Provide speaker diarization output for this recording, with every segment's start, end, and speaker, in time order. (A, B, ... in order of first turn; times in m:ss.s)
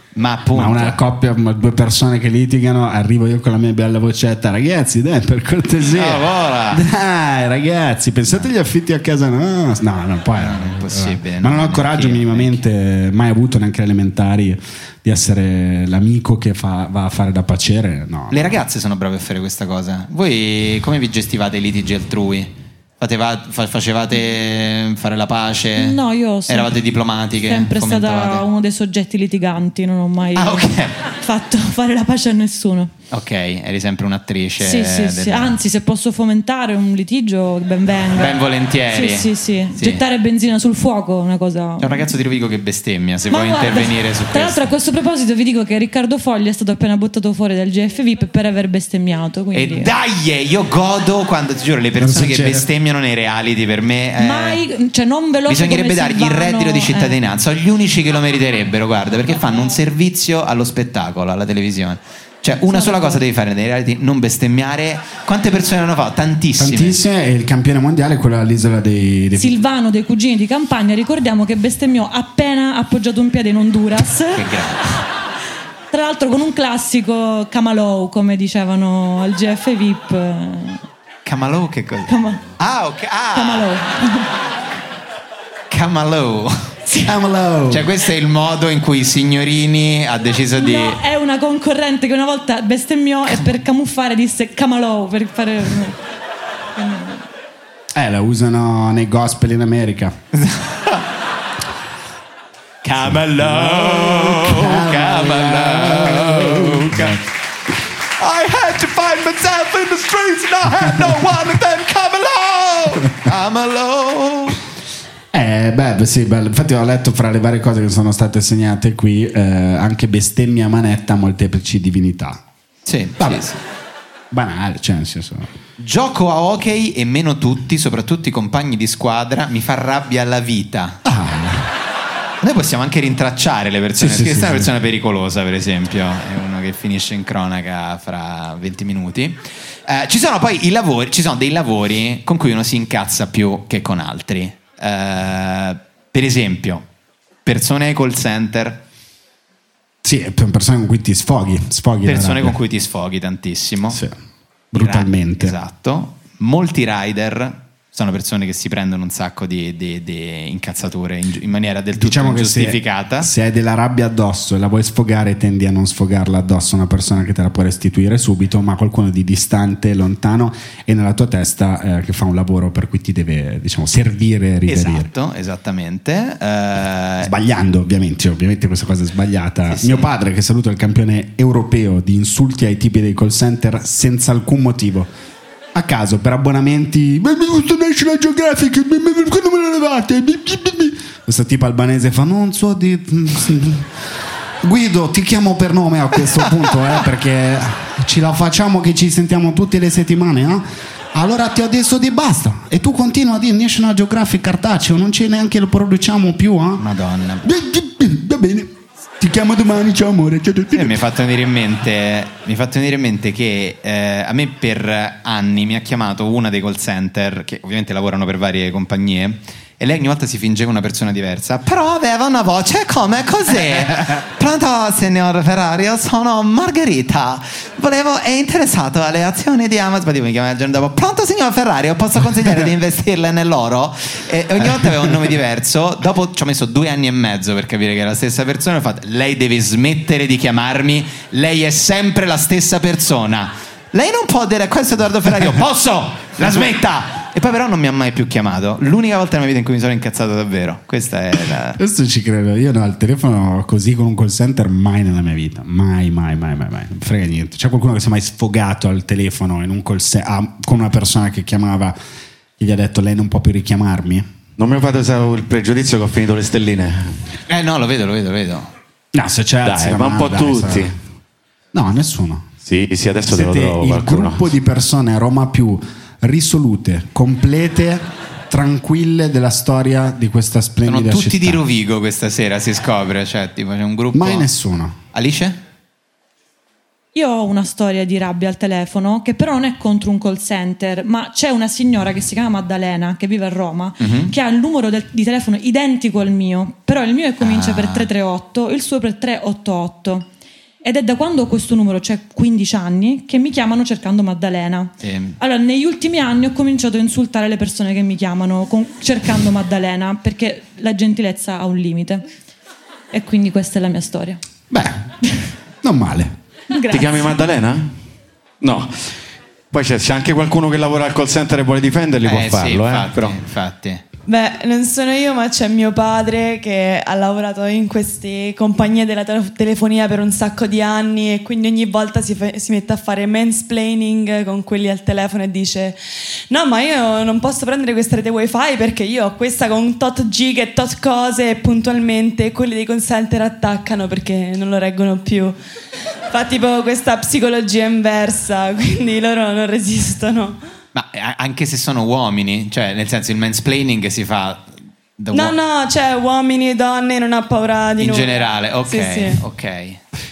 0:00.2-0:01.0 A
0:00.5-0:18.6 B
0:05.9-0:06.8 A
0:10.4-0:12.6 A
0:18.3-0:28.4 A
0:25.8-0:26.7 C
0:27.4-0:32.9 C
0:30.3-0:30.9 A
0:33.1-0:35.6 A
0:34.6-0:42.1 C
0:38.1-0:40.0 A
0:41.8-0:44.7 A
0:43.3-0:49.9 C
0:49.5-0:54.6 A
0:52.0-0:52.6 B
0:54.2-0:57.2 C
0:55.5-1:07.0 A
1:02.6-1:03.2 C
1:06.6-1:09.6 B
1:09.4-1:14.5 C
1:14.3-1:14.8 A
1:15.9-1:20.8 C
1:21.2-1:23.7 A
1:22.1-1:22.4 C
1:23.3-1:24.3 C
1:25.7-1:26.7 A
1:26.9-1:27.9 B
1:27.7-1:31.0 A
1:30.6-1:36.0 C
1:36.8-1:37.2 C
1:37.9-1:40.2 B
1:40.3-1:41.0 A
1:42.8-1:47.2 A
1:43.3-1:47.1 B
1:48.2-1:54.6 A
1:55.3-2:02.4 B
2:02.8-2:03.6 A
2:03.2-2:03.5 B
2:04.3-2:05.5 B
2:05.8-2:11.0 A
2:11.0-2:11.7 B
2:12.4-2:26.8 A
2:14.0-2:14.7 B
2:27.4-2:28.8 A
2:30.0-2:32.6 B
2:32.0-2:34.0 A
2:33.9-2:34.2 B
2:34.7-2:35.6 B
2:34.8-2:43.3 A
2:41.9-2:55.1 B
2:54.7-2:57.3 A
2:57.2-3:05.1 B
2:59.7-3:00.1 A
3:05.7-3:14.0 B
3:14.6-3:26.8 B
3:26.8-3:27.4 A
3:27.4-3:31.0 B
3:30.7-4:11.8 A
4:11.8-4:22.0 B
4:22.6-4:24.2 B
4:24.6-4:27.2 D
4:27.5-4:28.7 A
4:29.1-4:30.9 B
4:29.6-4:30.9 D
4:31.7-4:32.5 B
4:32.6-4:34.5 D
4:33.3-4:41.6 B
4:40.8-4:44.5 A
4:44.1-4:45.0 B
4:45.1-4:45.6 A
4:47.1-5:00.2 C
4:54.0-4:54.3 A
4:57.4-4:58.1 A
5:00.8-5:12.2 C
5:05.0-5:05.4 A
5:13.1-5:14.4 C
5:14.7-5:15.1 B
5:15.8-5:16.3 B
5:16.7-5:17.4 C
5:16.9-5:17.9 D
5:18.6-5:19.1 D
5:19.7-5:23.4 D
5:22.2-5:24.0 A
5:24.2-5:45.6 E
5:46.3-5:50.6 E
5:50.9-5:55.6 A
5:55.3-5:59.4 E
5:58.0-6:00.0 A